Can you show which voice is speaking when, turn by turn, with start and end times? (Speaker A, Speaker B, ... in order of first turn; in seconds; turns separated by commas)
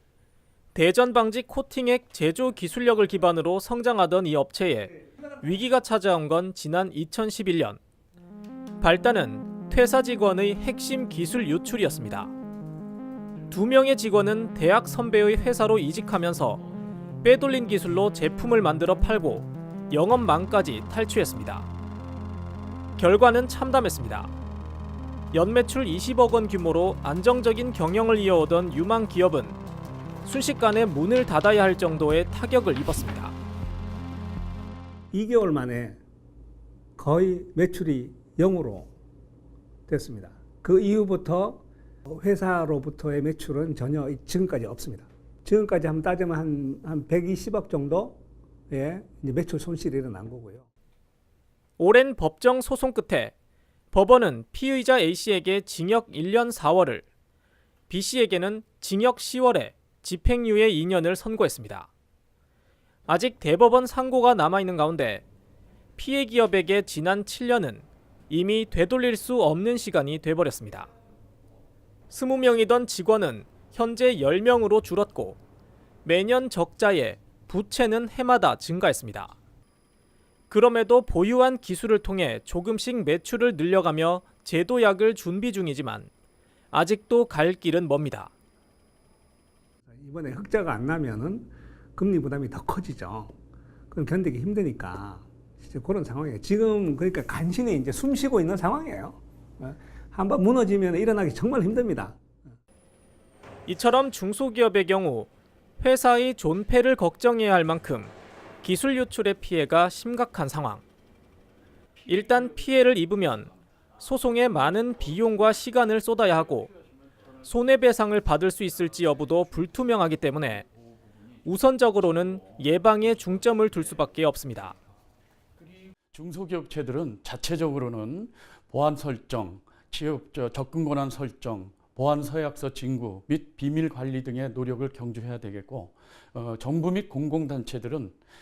Speaker A: 0.7-7.8, Speaker A: 8.8-12.3, Speaker A: 13.5-16.6, Speaker A: 17.2-21.7, Speaker A: 23.0-24.3, Speaker A: 25.3-29.6, Speaker A: 30.2-33.4, Speaker B: 35.1-36.0, Speaker B: 37.0-38.9, Speaker B: 39.9-48.2, Speaker B: 48.7-50.7, Speaker A: 51.8-53.3, Speaker A: 53.9-57.0, Speaker A: 57.9-61.9, Speaker A: 63.1-65.2, Speaker A: 66.0-70.9, Speaker A: 72.1-75.4, Speaker A: 76.0-79.3, Speaker A: 80.5-86.1, Speaker A: 86.7-88.3, Speaker B: 89.9-93.3, Speaker B: 93.9-102.5, Speaker A: 103.7-110.8, Speaker A: 112.1-116.7, Speaker A: 117.4-120.7, Speaker A: 121.5-124.8, Speaker C: 126.1-138.2